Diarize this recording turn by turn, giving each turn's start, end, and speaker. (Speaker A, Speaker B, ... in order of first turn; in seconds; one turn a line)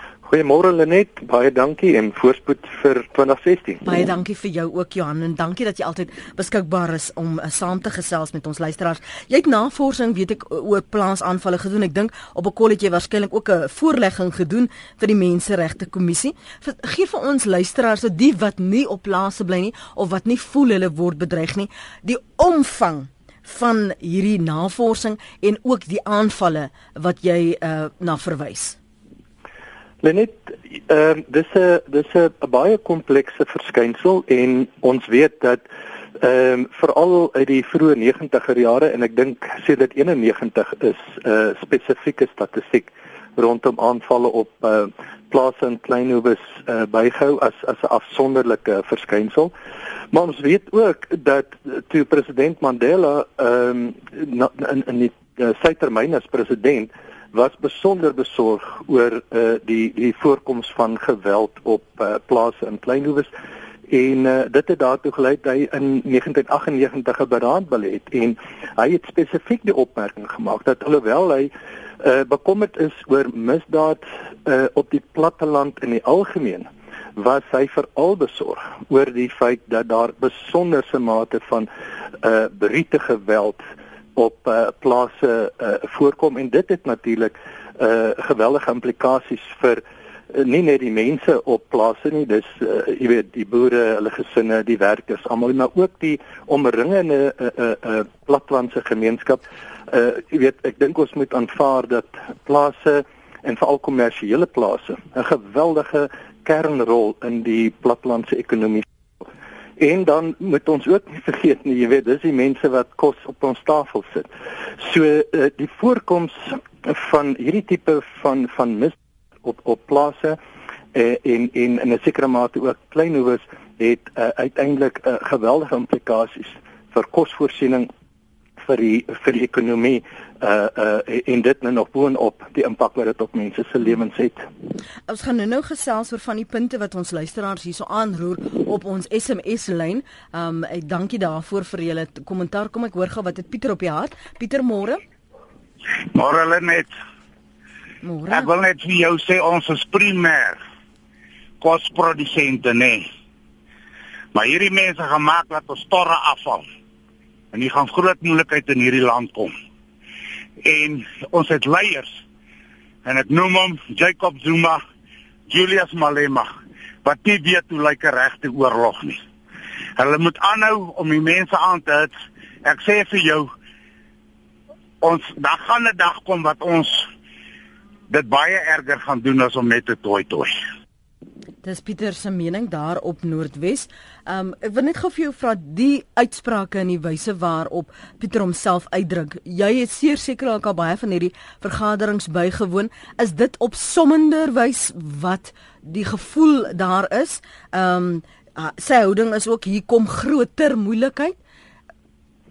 Speaker A: 0.2-3.8
Speaker B: 3.9-28.8
Speaker A: 30.0-35.6
Speaker A: 36.2-49.5
Speaker A: 50.1-63.3
Speaker A: 63.9-81.7
Speaker A: 82.2-83.6
Speaker A: 84.2-89.8
Speaker A: 90.3-108.8
Speaker A: 109.8-114.3
Speaker A: 114.8-120.4
Speaker A: 120.9-127.9
Speaker A: 128.6-134.5
Speaker B: 135.1-145.0
Speaker C: 146.1-146.9
Speaker B: 148.0-148.5
Speaker C: 148.3-150.6
Speaker C: 151.6-153.1
Speaker C: 154.3-156.7
Speaker C: 157.5-159.5
Speaker C: 160.6-162.1
Speaker C: 163.1-164.8
Speaker C: 165.5-166.5
Speaker C: 167.0-169.2
Speaker C: 170.0-172.1
Speaker C: 172.6-173.5
Speaker C: 175.0-177.1
Speaker C: 178.1-180.6
Speaker B: 181.6-201.4